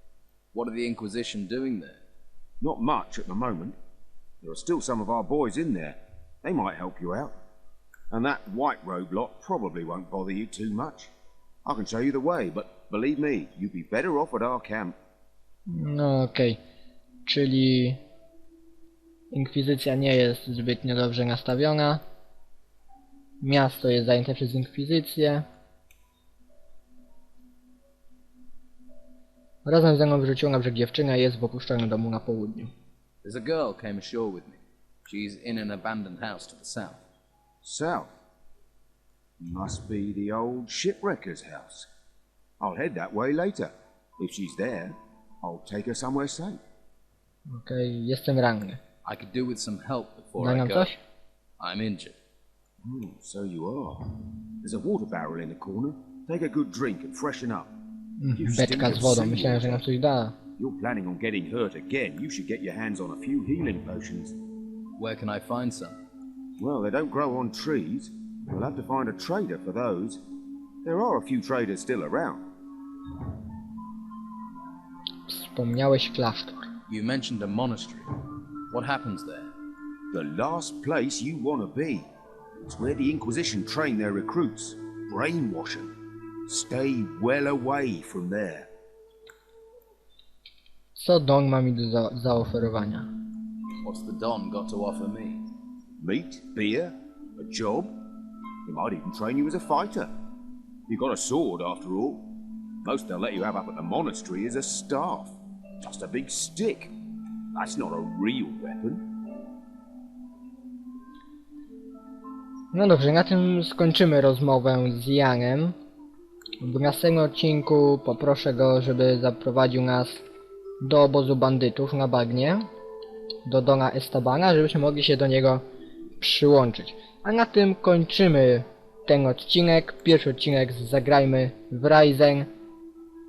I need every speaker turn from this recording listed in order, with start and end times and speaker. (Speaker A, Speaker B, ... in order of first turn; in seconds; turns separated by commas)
Speaker A: 0.5-2.0, Speaker B: 2.6-3.8, Speaker B: 4.4-7.3, Speaker B: 8.1-11.1, Speaker B: 11.7-15.0, Speaker C: 15.7-16.6, Speaker C: 17.3-18.0, Speaker C: 19.3-22.0, Speaker C: 23.4-25.5, Speaker C: 29.6-32.7, Speaker A: 33.2-37.0, Speaker B: 37.6-38.1, Speaker B: 39.4-41.9, Speaker B: 42.6-46.6, Speaker C: 47.5-48.8, Speaker A: 49.0-50.9, Speaker C: 50.4-51.0, Speaker A: 51.6-52.2, Speaker B: 52.8-57.7, Speaker C: 58.2-60.4, Speaker B: 58.3-59.8, Speaker B: 60.6-64.4, Speaker A: 65.0-66.0, Speaker B: 66.6-70.2, Speaker B: 70.8-72.5, Speaker C: 75.3-76.7, Speaker A: 76.9-78.1, Speaker A: 78.7-79.5, Speaker B: 80.1-82.1, Speaker B: 82.6-85.9, Speaker B: 86.5-88.7, Speaker C: 91.0-93.1, Speaker A: 93.8-95.4, Speaker B: 96.0-98.0, Speaker B: 98.7-100.1, Speaker B: 100.9-102.3, Speaker B: 102.8-106.9, Speaker B: 107.5-109.0, Speaker C: 112.7-115.8, Speaker C: 116.6-120.2, Speaker C: 120.8-122.7, Speaker C: 123.5-125.6, Speaker C: 126.2-132.5